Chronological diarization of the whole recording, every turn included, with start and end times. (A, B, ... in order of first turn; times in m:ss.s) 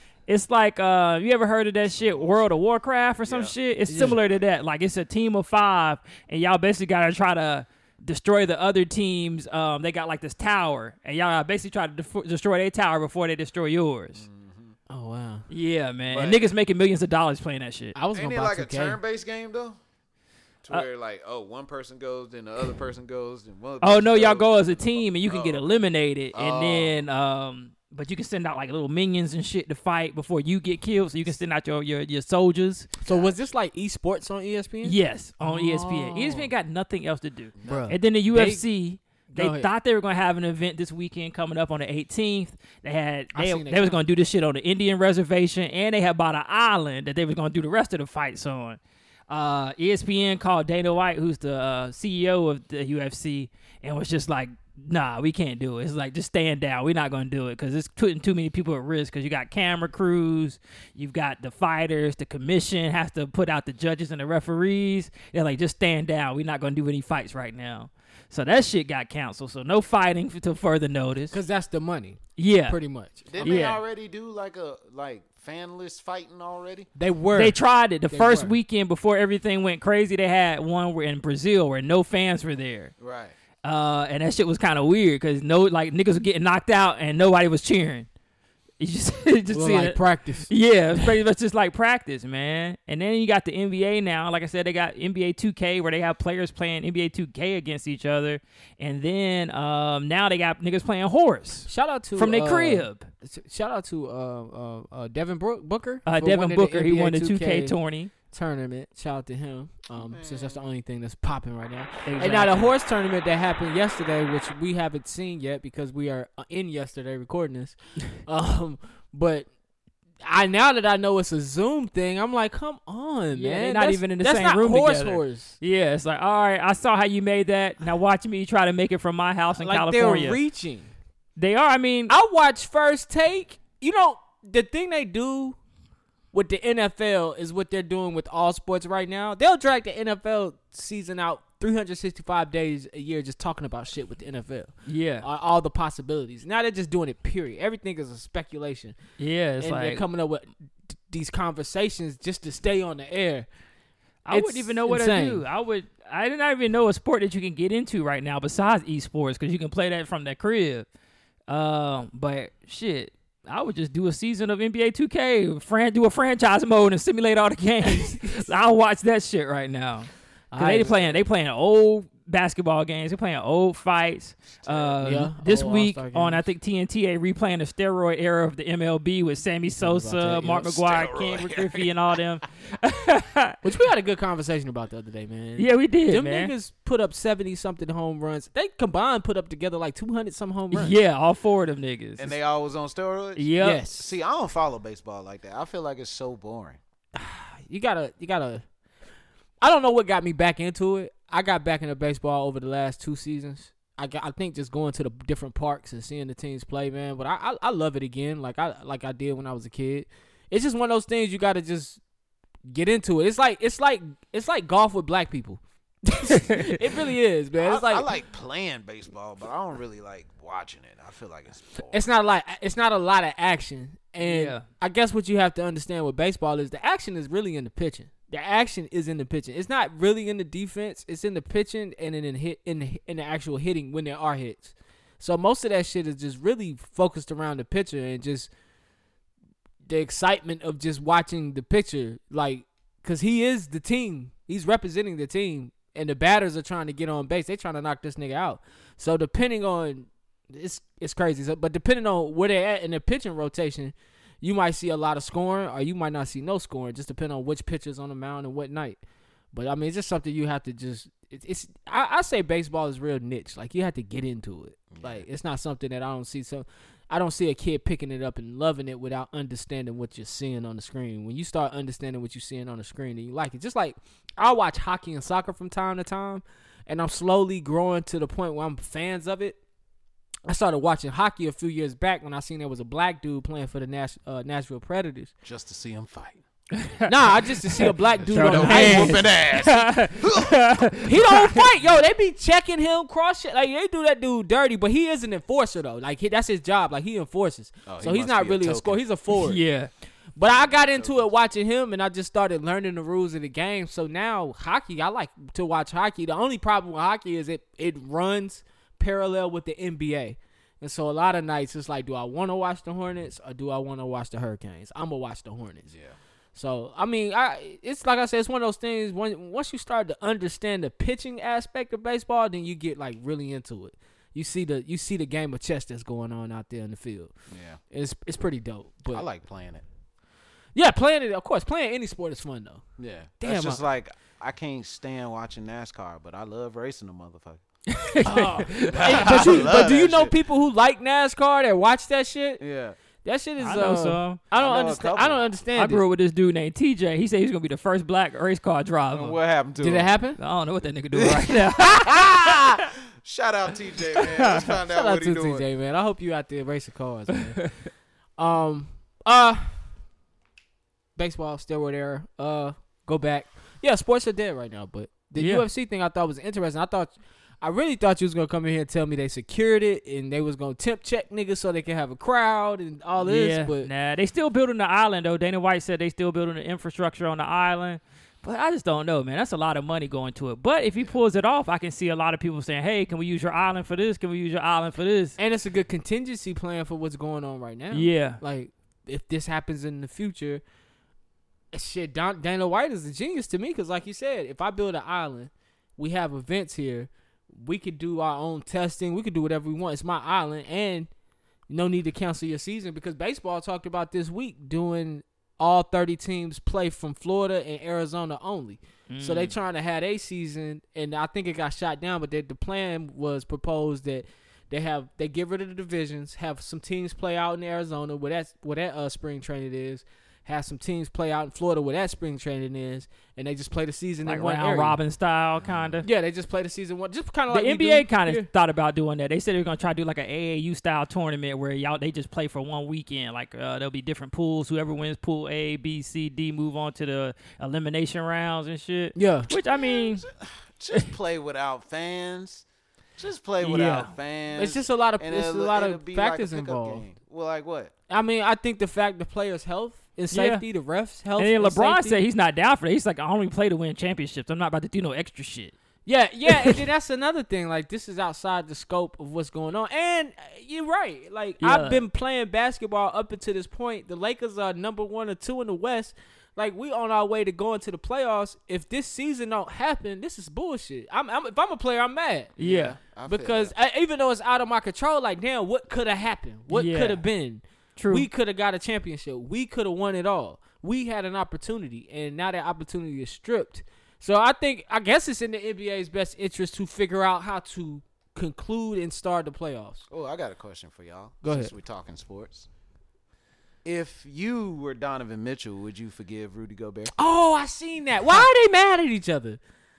0:00.3-0:14.2 A
0:01.9-0:02.5 B
0:03.2-0:03.5 B
0:03.9-0:04.2 C
0:14.2-0:14.8 B
0:14.9-0:15.5 C
0:15.5-0:18.0 A
0:16.1-0:16.5 B
0:18.0-0:19.0 C
0:18.1-0:19.8 B
0:20.6-0:25.8 B
0:23.8-0:32.9 A
0:26.3-0:27.0 B
0:33.0-0:36.5 C
0:33.0-0:33.4 B
0:34.8-1:11.4 A
0:37.6-0:37.9 B
0:37.6-0:38.6 C
0:39.3-0:39.7 C
0:43.3-0:44.0 C
1:11.3-1:13.7 C
1:12.4-1:12.8 A
1:13.3-1:16.9 B
1:13.4-1:13.8 A
1:17.0-1:18.6 C
1:17.3-1:22.9 A
1:23.0-1:23.4 B
1:23.6-1:28.1 A
1:28.8-1:43.1 A
1:29.5-1:30.5 C
1:41.7-1:47.8 C
1:46.1-1:48.1 A
1:48.3-1:59.5 C
1:50.0-1:50.6 B
1:52.1-1:52.7 A
2:00.2-2:05.6 C
2:03.3-2:10.4 A
2:09.6-2:10.9 C
2:11.4-2:12.1 A
2:12.1-2:15.6 C
2:16.3-2:29.0 C
2:24.9-2:25.3 A
2:29.2-2:30.1 A
2:29.6-2:33.5 C
2:34.2-2:40.9 A
2:34.3-2:35.4 C
2:41.5-3:03.6 A
2:50.5-2:51.1 C
2:54.6-2:55.0 B
2:55.0-2:56.4 C
2:59.8-3:00.8 C
3:00.7-3:01.9 B
3:03.6-3:11.0 C
3:05.6-3:06.5 A
3:10.7-3:12.4 A
3:12.2-3:16.8 B
3:13.4-3:13.8 A
3:13.6-3:14.1 C
3:17.2-3:18.6 C
3:19.6-3:32.0 C
3:32.7-3:38.1 C
3:37.6-3:42.0 B
3:41.9-3:58.5 C
3:44.2-3:44.6 A
3:59.8-4:19.0 C
4:19.5-4:39.6 C
4:24.9-4:25.2 B
4:40.5-4:45.3 C
4:45.4-4:46.4 B
4:46.8-4:47.1 A
4:47.1-4:49.2 C
4:47.8-4:51.6 A
4:48.3-4:50.9 B
4:51.0-4:59.6 C
4:57.9-4:59.0 B
4:59.4-4:59.9 A
5:00.4-5:15.9 C
5:00.4-5:01.3 B
5:15.9-5:16.2 B
5:16.6-5:27.3 C
5:27.5-5:27.8 B
5:27.9-5:29.3 C
5:29.1-5:29.8 B
5:30.8-5:32.8 C
5:33.0-5:37.6 B
5:33.4-5:33.8 C
5:37.9-5:39.8 A
5:38.2-5:42.6 C
5:38.8-5:40.3 B
5:42.6-5:43.0 B
5:43.2-5:46.0 C
5:43.6-5:44.4 A
5:44.5-5:45.5 B
5:45.8-5:49.4 A
5:49.1-5:50.1 B
5:49.8-5:50.4 C
5:50.4-5:52.3 A
5:51.1-5:55.6 B
5:54.4-5:54.7 A
5:54.9-5:57.6 C
5:58.4-5:59.7 C
6:01.2-6:13.9 C
6:05.4-6:05.6 A
6:13.2-6:25.4 A
6:25.4-6:30.6 C
6:27.9-6:28.4 A
6:31.7-6:41.1 C
6:41.7-7:05.0 C
6:49.1-6:49.5 A
7:04.2-7:06.1 A
7:05.6-7:06.0 B
7:06.0-7:08.5 C
7:07.5-7:20.2 A
7:19.2-7:19.5 C
7:19.6-7:22.6 B
7:23.2-7:27.9 B
7:23.6-7:24.1 A
7:24.6-7:27.0 C
7:28.1-7:32.2 C
7:30.3-7:30.6 A
7:31.4-7:35.8 A
7:36.1-7:52.5 C
7:36.5-7:36.8 A
7:41.6-7:42.0 A
7:52.6-7:53.0 A
7:52.6-7:53.7 B
7:53.3-8:10.0 C
7:56.7-7:57.2 A
7:58.0-7:58.3 A
8:10.1-8:12.7 B
8:11.4-8:11.7 C
8:13.8-8:17.1 B
8:17.2-8:19.6 C